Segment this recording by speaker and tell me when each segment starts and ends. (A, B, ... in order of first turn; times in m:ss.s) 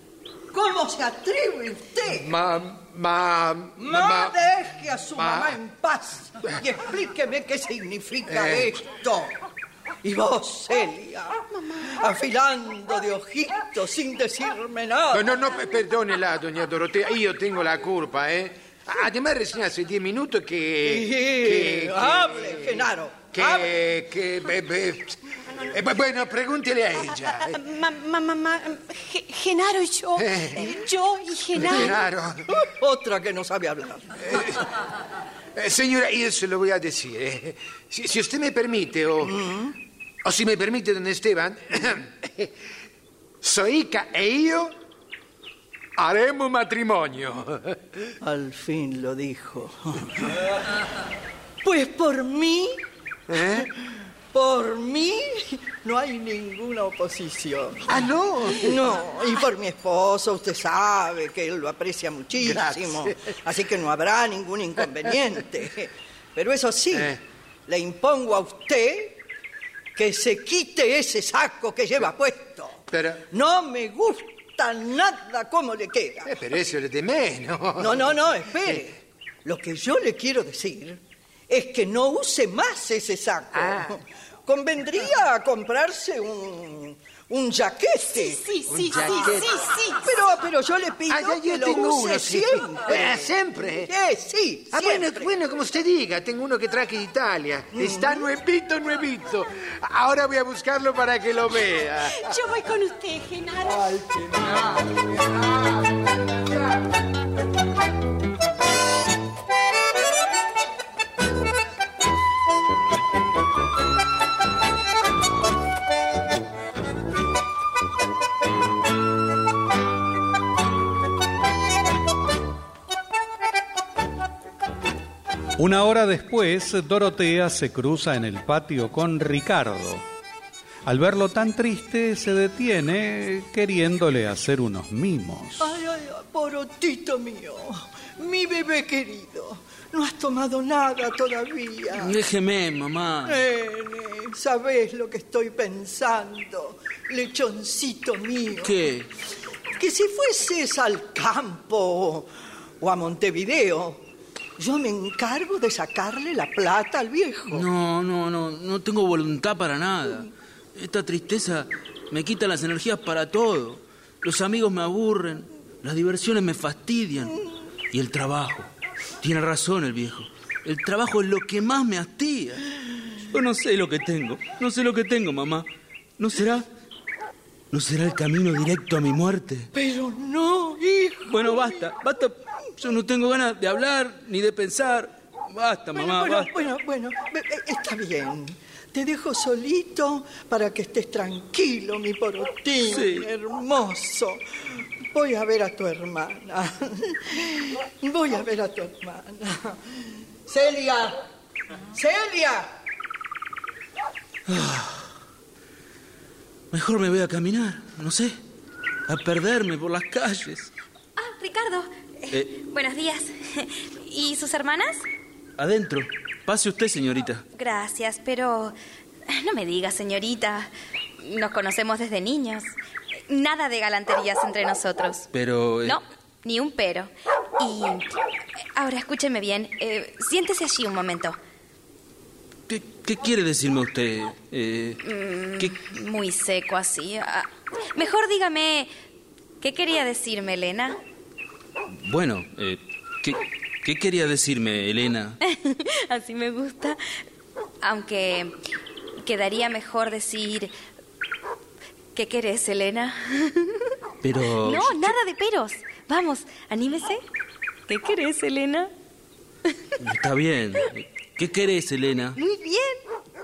0:00.5-0:02.3 A
0:02.1-0:04.4 B
0:03.8-0:09.4 A
0:05.1-0:05.6 B
0:08.3-0:08.7 B
0:10.0-0:15.3 A
0:15.1-0:22.8 B
0:20.8-0:23.7 A
0:23.3-0:27.6 B
0:27.2-0:32.0 C
0:30.2-0:30.7 B
0:31.6-0:34.1 A
0:31.6-0:32.4 B
0:34.3-0:34.6 B
0:35.5-0:39.4 B
0:39.2-0:39.8 A
0:40.2-0:42.5 B
0:43.4-0:44.7 B
0:46.0-0:48.1 B
0:48.2-0:50.2 A
0:51.6-0:52.8 A
0:53.3-0:53.7 B
0:53.4-1:07.1 A
0:57.9-0:58.8 B
1:02.4-1:03.3 B
1:06.9-1:07.2 B
1:07.7-1:09.2 A
1:10.0-1:16.3 A
1:12.9-1:13.2 B
1:16.2-1:18.8 B
1:17.8-1:28.4 A
1:23.5-1:23.9 B
1:28.0-1:30.2 C
1:28.7-1:29.6 B
1:30.0-1:33.3 A
1:31.1-1:33.9 B
1:33.8-1:35.3 A
1:34.7-1:42.3 B
1:37.7-1:38.2 A
1:42.1-1:44.0 C
2:05.6-2:10.0 D
2:10.8-2:15.7 D
2:15.6-2:22.2 A
2:21.9-2:23.4 E
2:23.2-2:28.8 A
2:28.6-2:29.1 E
2:29.8-2:32.3 A
2:32.8-2:34.0 A
2:34.6-2:37.6 A
2:37.5-2:47.4 E
2:47.9-2:48.7 E
2:49.2-2:52.6 E
2:53.3-2:56.7 E
2:57.7-2:59.7 E
2:59.7-3:01.9 A
3:01.3-3:06.5 E
3:05.9-3:21.2 A
3:12.8-3:13.3 E
3:21.9-3:22.7 A
3:24.5-3:25.0 E
3:26.7-3:28.4 E
3:29.1-3:30.7 E
3:31.2-3:35.0 F
3:35.6-3:37.4 E
3:37.5-3:38.7 F
3:39.3-3:42.7 F
3:43.3-3:45.3 F
3:45.3-3:46.0 E
3:45.8-3:48.1 F
3:48.7-3:51.4 F
3:52.7-3:55.0 E
3:55.0-3:58.9 F
3:59.6-4:01.0 F
4:01.9-4:05.4 E
4:05.4-4:07.0 F
4:07.8-4:08.6 F
4:09.2-4:10.7 F
4:12.1-4:13.9 F
4:14.2-4:15.1 E
4:14.6-4:17.2 F
4:17.9-4:18.9 F
4:20.0-4:22.4 E
4:22.4-4:23.0 F